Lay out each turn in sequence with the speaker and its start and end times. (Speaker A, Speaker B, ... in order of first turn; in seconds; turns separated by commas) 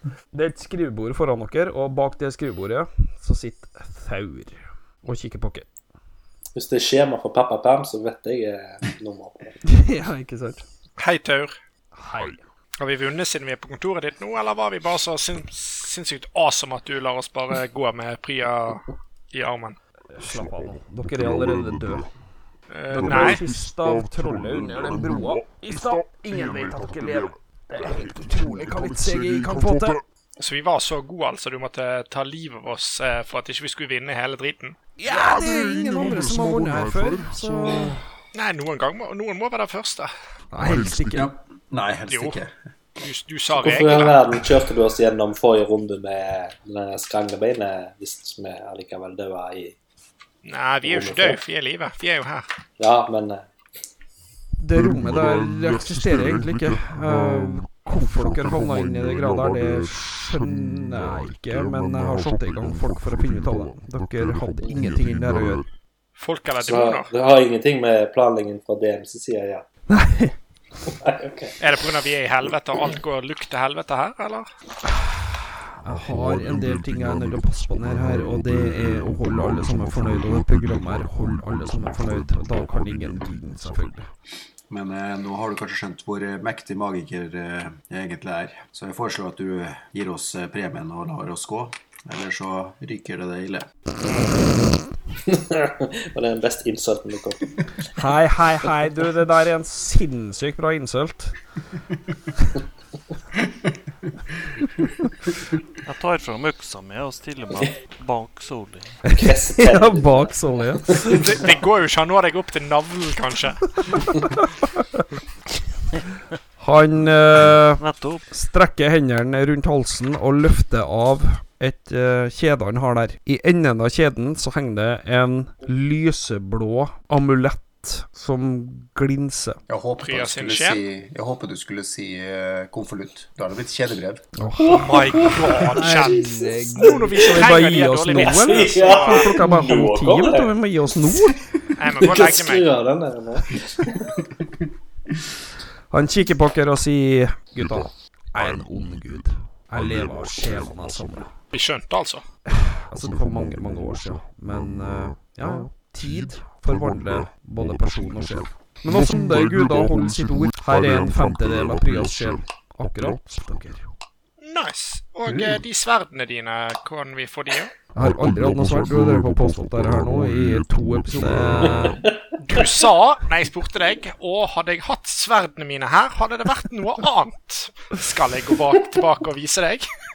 Speaker A: 0.3-5.7, Speaker B: 6.5-9.6, Speaker A: 9.6-10.6, Speaker C: 11.0-11.5, Speaker A: 11.9-12.4, Speaker C: 12.8-19.8, Speaker A: 20.1-22.1, Speaker C: 22.7-23.4, Speaker A: 22.9-30.0, Speaker C: 30.4-34.8, Speaker A: 35.0-37.9, Speaker C: 38.3-40.1, Speaker A: 40.5-41.3, Speaker D: 41.0-42.5, Speaker C: 42.1-42.4, Speaker C: 43.0-44.2, Speaker B: 43.5-49.7, Speaker C: 50.4-52.5, Speaker B: 50.8-51.4, Speaker B: 52.8-53.4, Speaker A: 54.6-65.6, Speaker C: 66.2-67.1, Speaker B: 66.6-69.6, Speaker A: 69.9-70.3, Speaker B: 70.9-71.5, Speaker C: 71.6-74.5, Speaker A: 75.8-84.1, Speaker D: 84.7-93.7, Speaker B: 95.2-97.5, Speaker A: 97.9-101.3, Speaker E: 105.8-109.0, Speaker A: 109.1-111.1, Speaker B: 109.1-111.2, Speaker C: 111.1-114.0, Speaker A: 116.6-129.6, Speaker E: 117.8-118.2, Speaker D: 129.7-134.2, Speaker C: 130.0-130.8, Speaker A: 134.4-141.4, Speaker C: 134.7-139.4, Speaker B: 134.7-136.2, Speaker B: 137.0-140.5, Speaker C: 141.8-142.7, Speaker B: 142.0-144.2, Speaker A: 145.9-151.3, Speaker C: 151.5-152.2, Speaker A: 152.5-163.8, Speaker C: 164.4-167.7, Speaker D: 165.2-165.6, Speaker A: 167.9-172.1, Speaker B: 171.9-172.6, Speaker C: 172.5-179.9